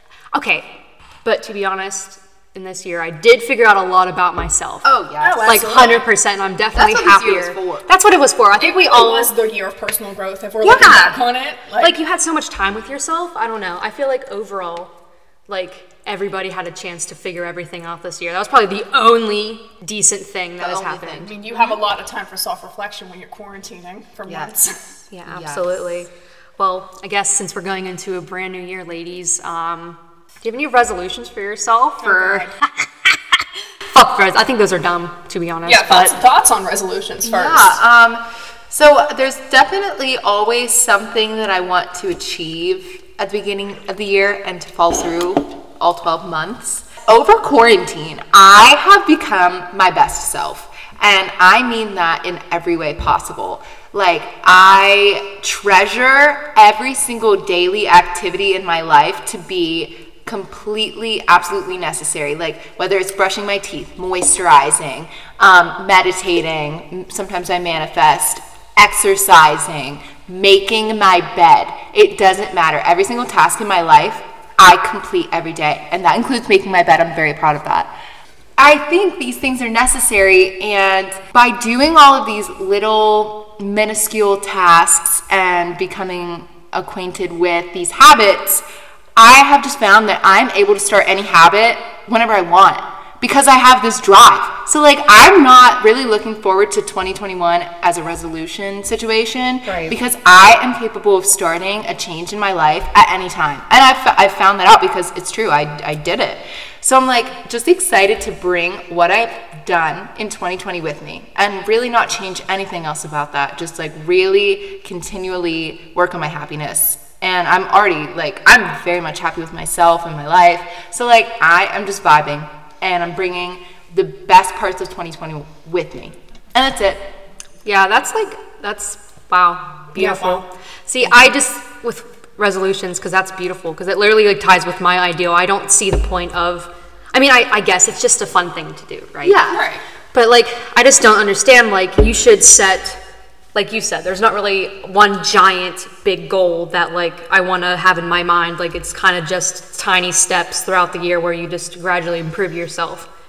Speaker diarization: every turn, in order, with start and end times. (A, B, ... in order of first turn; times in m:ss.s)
0:00.3-0:00.7 A
0:01.2-0:04.9 A
0:04.8-0:05.7 B
0:05.2-0:06.1 C
0:05.4-0:09.3 A
0:06.8-0:07.9 B
0:08.6-0:12.0 C
0:10.6-0:11.2 A
0:11.8-0:14.9 A
0:15.5-0:21.8 A
0:20.6-0:21.3 B
0:21.2-0:24.9 C
0:24.3-0:25.9 B
0:25.1-0:33.1 A
0:32.0-0:32.6 C
0:33.9-0:36.2 A
0:35.6-0:37.8 C
0:37.2-1:17.9 B
1:18.6-1:28.6 B
1:29.2-2:07.1 B
2:07.6-2:19.4 A
2:10.0-2:10.5 C
2:19.2-2:19.7 B
2:19.5-2:19.8 C
2:20.1-2:23.0 A
2:23.6-2:33.1 A